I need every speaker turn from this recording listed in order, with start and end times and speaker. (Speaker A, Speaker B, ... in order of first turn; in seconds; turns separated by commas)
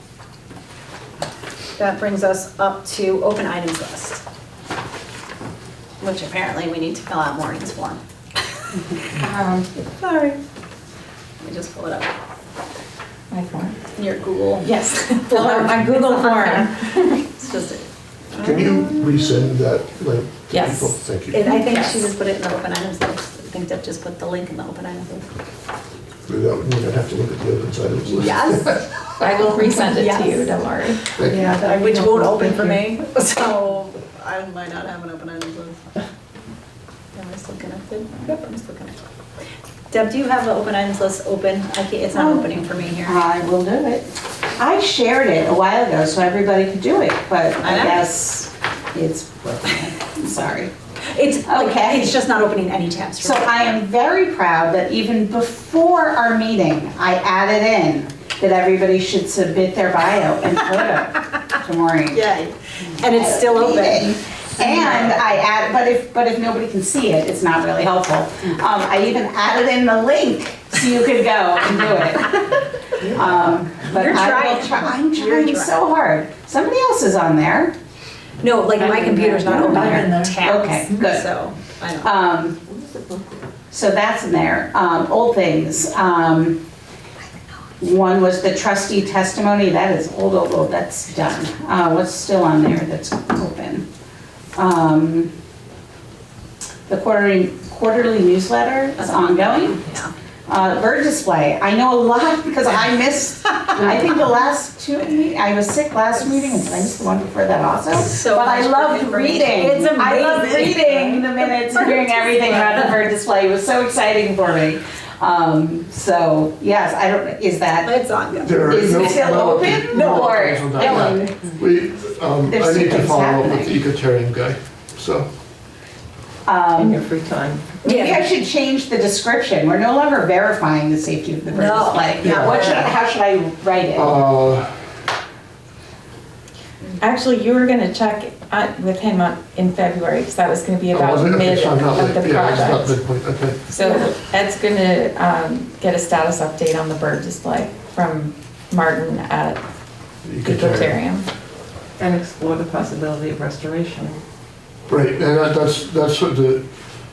Speaker A: 1.8-4.2, Speaker A: 6.0-8.0, Speaker B: 9.1-9.7, Speaker A: 9.9-10.4, Speaker A: 11.4-12.1, Speaker B: 13.3-13.8, Speaker A: 13.9-14.7, Speaker B: 14.6-17.0, Speaker A: 15.2-19.3, Speaker C: 18.4-21.4, Speaker B: 20.5-22.0, Speaker A: 21.3-25.3, Speaker C: 26.3-28.8, Speaker A: 28.1-29.0, Speaker B: 29.2-31.0, Speaker A: 29.8-30.5, Speaker C: 31.2-31.4, Speaker D: 31.2-33.0, Speaker A: 31.6-35.8, Speaker A: 37.1-39.0, Speaker A: 39.9-43.2, Speaker E: 42.1-50.7, Speaker A: 47.6-48.1, Speaker A: 51.1-53.5, Speaker E: 51.4-52.2, Speaker E: 53.2-62.2, Speaker A: 62.1-65.2, Speaker E: 63.0-77.7, Speaker A: 73.9-75.8, Speaker A: 78.4-82.1, Speaker E: 78.8-81.3, Speaker E: 82.0-82.6, Speaker E: 83.7-86.6, Speaker E: 87.8-93.8, Speaker E: 94.5-95.3, Speaker E: 96.9-99.8, Speaker A: 99.0-100.1, Speaker E: 100.5-118.0, Speaker A: 108.0-112.9, Speaker A: 117.8-119.3, Speaker C: 118.4-125.3, Speaker E: 118.6-121.3, Speaker A: 119.9-121.5, Speaker E: 122.5-123.8, Speaker E: 126.5-127.0, Speaker D: 126.7-128.2, Speaker A: 127.8-128.2, Speaker E: 127.8-134.2, Speaker A: 131.5-132.9, Speaker C: 132.2-132.9, Speaker C: 133.9-134.7, Speaker B: 137.0-143.0, Speaker C: 140.9-143.6, Speaker B: 143.7-149.6, Speaker C: 150.2-151.0, Speaker B: 150.4-151.3, Speaker D: 152.0-154.2, Speaker C: 154.9-156.6